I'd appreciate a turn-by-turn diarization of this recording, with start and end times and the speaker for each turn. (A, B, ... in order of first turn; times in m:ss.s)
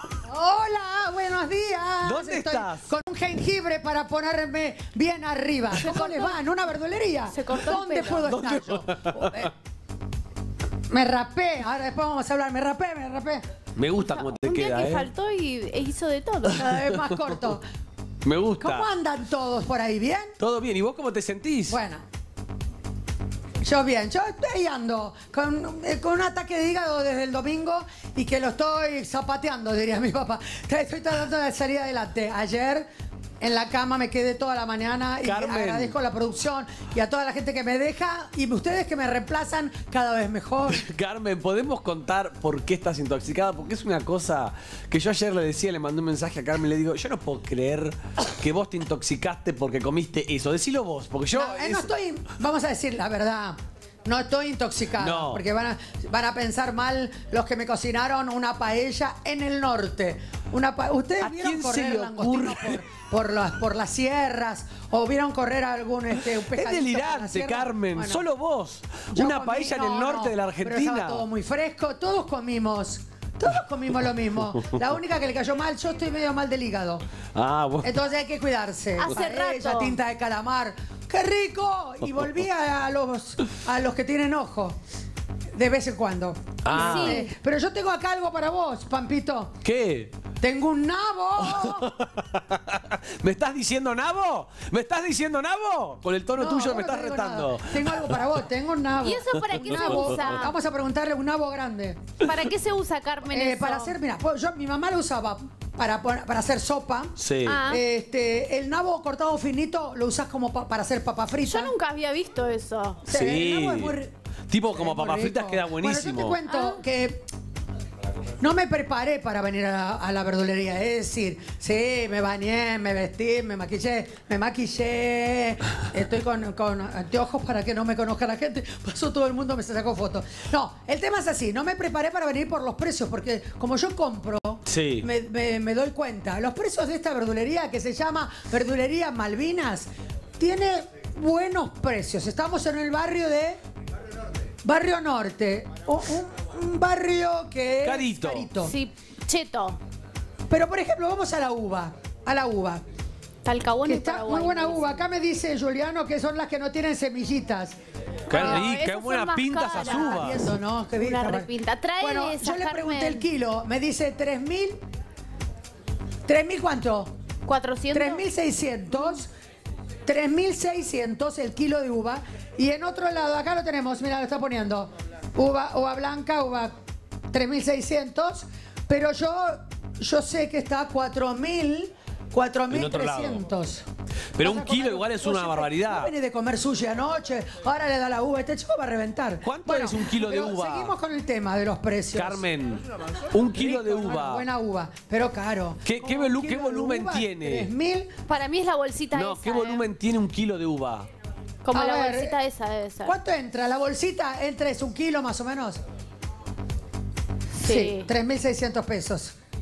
0:00.2-0:09.5 A
0:02.0-0:02.9 B
0:05.8-0:06.4 C
0:07.3-0:08.3 C
0:08.0-0:09.5 B
0:10.9-0:13.4 A
0:13.8-0:15.1 B
0:14.0-0:16.7 C
0:16.5-0:17.7 A
0:16.6-0:17.4 B
0:18.2-0:18.9 B
0:18.6-0:20.3 A
0:20.4-0:21.8 B
0:21.7-0:22.0 A
0:23.6-0:32.9 A
0:33.4-0:40.8 A
0:35.2-0:36.0 B
0:40.7-0:51.9 B
0:51.3-1:08.2 A
0:55.0-0:55.4 B
1:01.2-1:02.8 B
1:06.3-1:11.2 B
1:09.1-1:17.0 A
1:14.4-1:14.7 B
1:17.3-1:17.9 B
1:17.8-1:24.8 A
1:19.0-1:20.0 C
1:25.5-1:29.6 A
1:26.6-1:27.2 B
1:26.7-1:27.3 C
1:29.6-1:30.1 B
1:30.4-1:31.9 A
1:31.4-1:38.2 B
1:36.3-1:42.2 A
1:39.0-1:40.5 C
1:39.6-1:40.3 B
1:42.2-1:44.0 C
1:43.3-1:51.8 A
1:47.2-1:47.6 B
1:47.4-1:47.8 C
1:51.4-1:53.0 C
1:53.0-1:54.1 A
1:53.1-1:54.0 B
1:54.5-1:56.4 B
1:54.7-1:57.3 A
1:56.5-1:56.8 C
1:58.4-2:23.6 A
2:14.7-2:15.1 B
2:24.6-2:28.8 A
2:27.8-2:28.5 B
2:28.6-2:29.8 C
2:30.5-2:32.8 A
2:33.4-2:35.0 C
2:33.8-2:37.8 A
2:38.3-2:40.5 B
2:38.3-2:38.7 A
2:38.3-2:40.4 C
2:39.8-2:44.8 A
2:41.0-2:43.2 C
2:46.2-2:47.1 A
2:47.5-2:48.2 C
2:47.9-2:49.3 A
2:48.9-2:49.2 C
2:50.1-2:56.8 A
2:57.3-3:03.8 A
3:02.7-3:03.5 B
3:04.4-3:06.1 B
3:04.4-3:12.4 A
3:09.4-3:10.9 B
3:12.2-3:14.4 B
3:13.5-3:18.2 A
3:15.8-3:17.7 B
3:18.3-3:19.8 C
3:19.1-3:21.1 B
3:21.6-3:23.2 C
3:21.7-3:22.4 A
3:23.0-3:25.8 A
3:27.6-3:28.1 C
3:27.6-3:29.3 A